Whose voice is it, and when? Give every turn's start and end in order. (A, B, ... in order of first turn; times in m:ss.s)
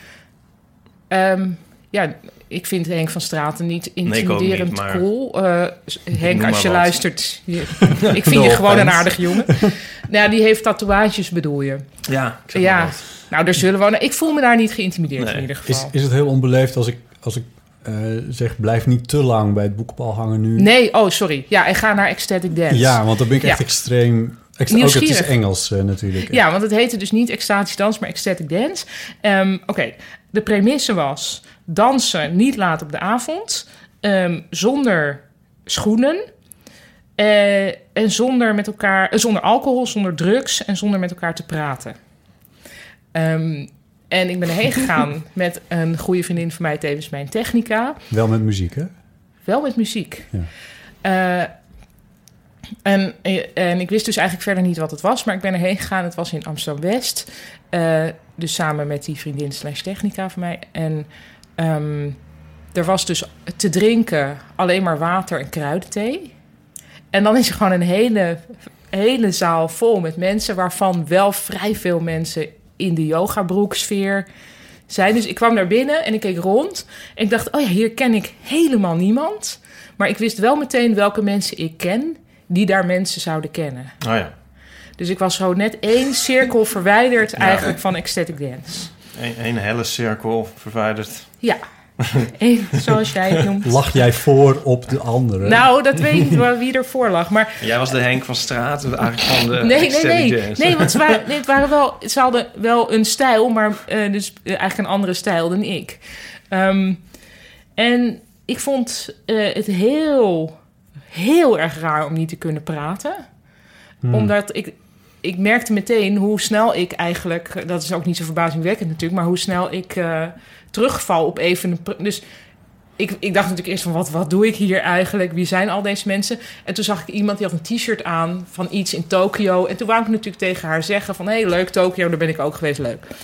0:01.1-0:11.8 A
0:04.0-0:05.0 B
0:06.2-0:06.9 B
0:08.0-0:09.7 C
0:12.1-0:13.0 B
0:12.5-0:15.9 A
0:15.2-0:15.4 B
0:15.6-0:20.7 C
0:20.6-0:23.6 A
0:22.7-0:26.4 C
0:24.7-0:25.4 A
0:26.3-0:36.2 A
0:37.2-0:42.0 A
0:43.1-0:48.0 A
0:48.1-0:48.9 C
0:49.4-0:50.3 A
0:51.0-0:51.5 A
0:52.8-1:02.2 A
1:02.7-1:06.3 A
1:07.1-1:14.3 A
1:14.9-1:23.9 A
1:24.0-1:24.3 B
1:25.0-1:28.9 A
1:27.4-1:27.7 B
1:29.1-1:31.3 B
1:32.0-1:32.3 B
1:32.2-1:33.9 A
1:33.6-1:35.6 C
1:35.4-1:37.6 A
1:37.6-1:41.2 B
1:39.6-1:47.0 A
1:47.8-1:50.6 A
1:51.1-1:53.2 A
1:54.0-1:54.3 C
1:54.1-2:02.2 A
2:03.0-2:13.0 A